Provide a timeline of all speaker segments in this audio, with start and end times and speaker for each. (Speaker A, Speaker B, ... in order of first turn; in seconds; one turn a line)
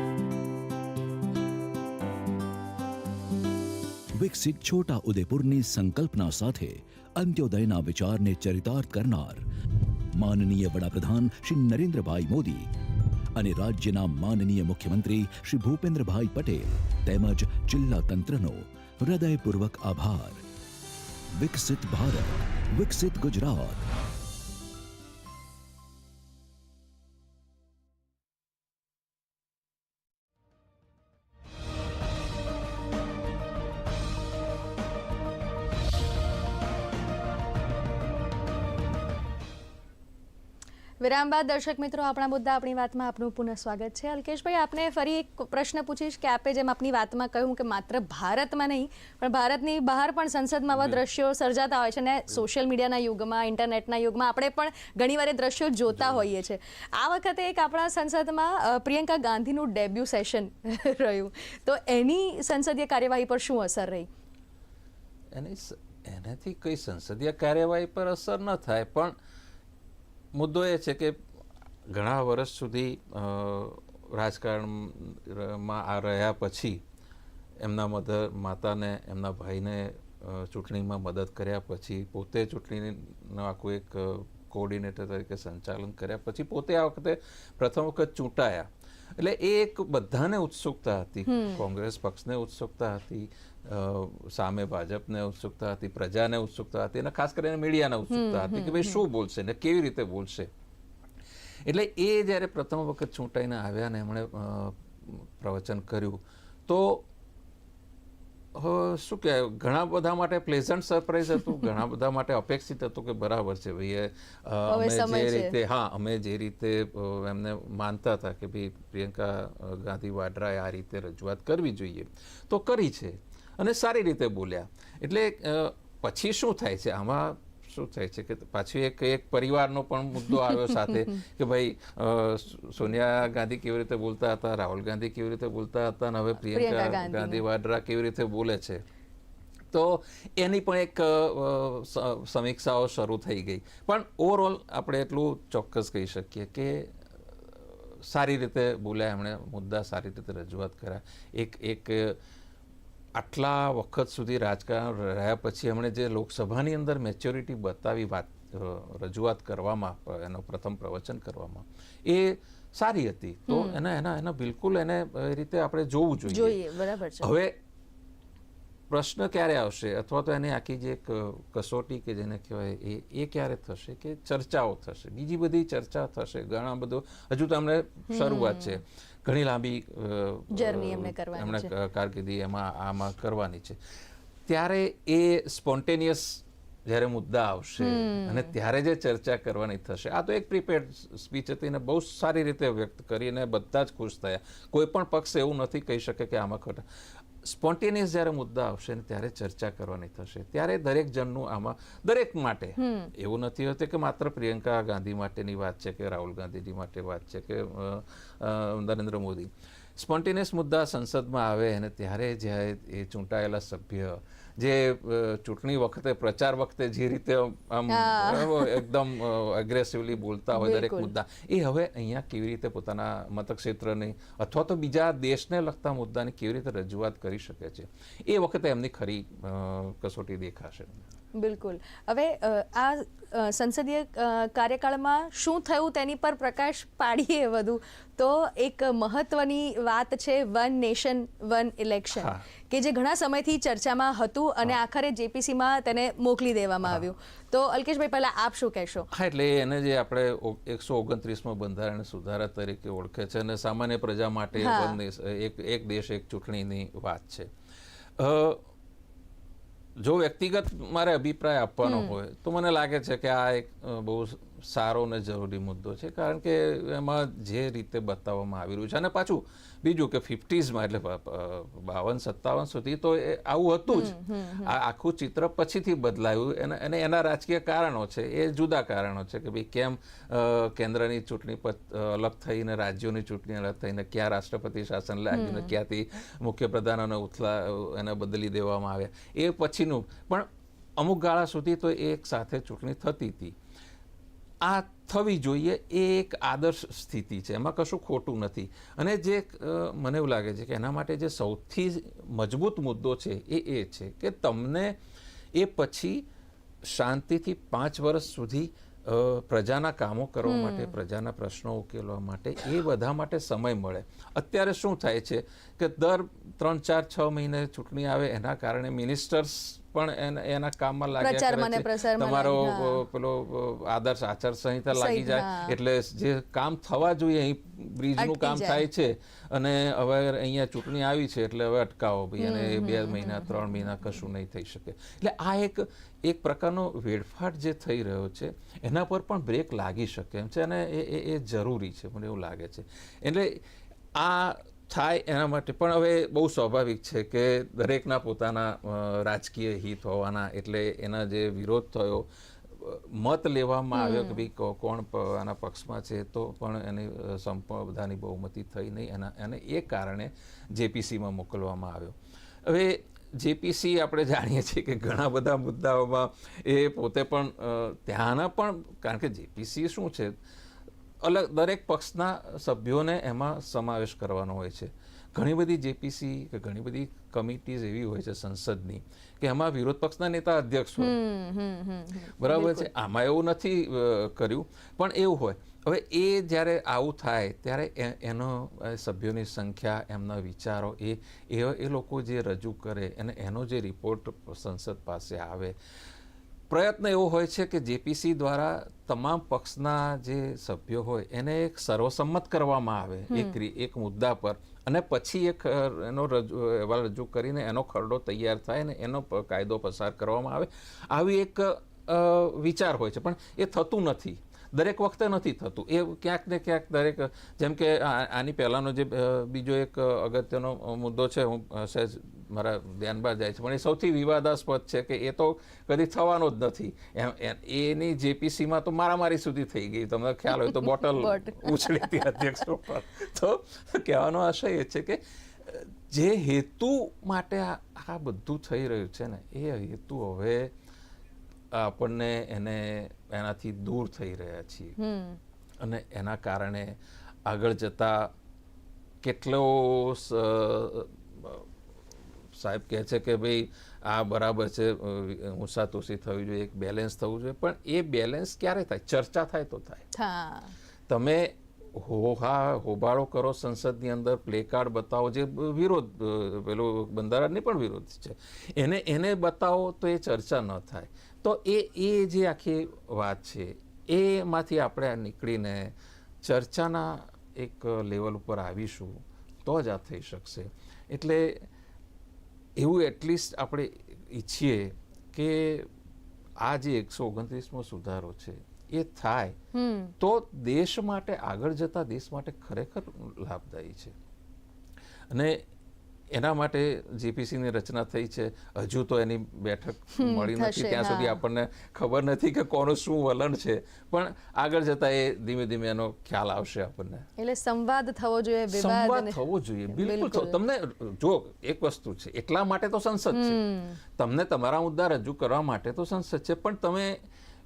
Speaker A: 4.1-9.5
Speaker A: 10.1-12.7
Speaker A: 13.4-20.4
Speaker A: 21.4-23.9
Speaker B: 41.0-64.1
Speaker C: 65.3-69.1
Speaker C: 70.3-71.2
Speaker C: 71.9-76.8
Speaker C: 77.6-100.5
Speaker B: 91.3-91.6
Speaker B: 98.1-99.0
Speaker C: 101.7-107.1
Speaker C: 108.5-138.8
Speaker B: 114.7-115.5
Speaker B: 130.3-131.0
Speaker B: 136.5-137.4
Speaker C: 139.7-146.9
Speaker C: 148.0-152.2
Speaker C: 153.2-166.6
Speaker B: 163.5-163.8
Speaker B: 166.3-167.3
Speaker C: 167.2-167.6
Speaker C: 168.9-183.8
Speaker B: 178.1-178.8
Speaker B: 180.6-181.7
Speaker C: 184.5-196.8
Speaker B: 187.8-188.5
Speaker C: 197.4-231.0
Speaker B: 202.8-203.1
Speaker B: 217.9-218.8
Speaker B: 220.6-221.1
Speaker B: 231.4-249.1
Speaker C: 242.1-242.4
Speaker C: 249.1-257.5
Speaker B: 254.6-255.0
Speaker C: 258.2-258.6
Speaker C: 260.0-293.6
Speaker B: 261.9-262.1
Speaker B: 273.9-274.7
Speaker B: 285.3-285.7
Speaker C: 294.6-305.0
Speaker C: 305.6-306.3
Speaker C: 306.8-343.6
Speaker B: 310.5-310.9
Speaker B: 321.2-323.0
Speaker B: 324.9-325.8
Speaker B: 328.2-328.8
Speaker B: 332.4-333.9
Speaker C: 344.1-370.4
Speaker B: 353.9-354.4
Speaker C: 371.2-381.1
Speaker B: 381.0-382.9
Speaker C: 382.4-395.8
Speaker C: 396.7-440.7
Speaker B: 403.3-403.6
Speaker B: 431.1-432.1
Speaker C: 441.7-444.9
Speaker B: 445.0-445.4
Speaker C: 445.8-448.3
Speaker C: 449.2-451.7
Speaker C: 452.5-460.1
Speaker B: 460.1-460.7
Speaker C: 461.1-481.6
Speaker C: 482.8-485.9
Speaker C: 486.6-489.6
Speaker B: 489.7-490.1
Speaker C: 490.2-494.1
Speaker C: 495.3-495.6
Speaker C: 496.3-507.3
Speaker B: 500.2-501.4
Speaker B: 507.4-509.4
Speaker C: 508.7-513.6
Speaker B: 509.9-510.5
Speaker B: 513.3-514.0
Speaker C: 514.1-517.2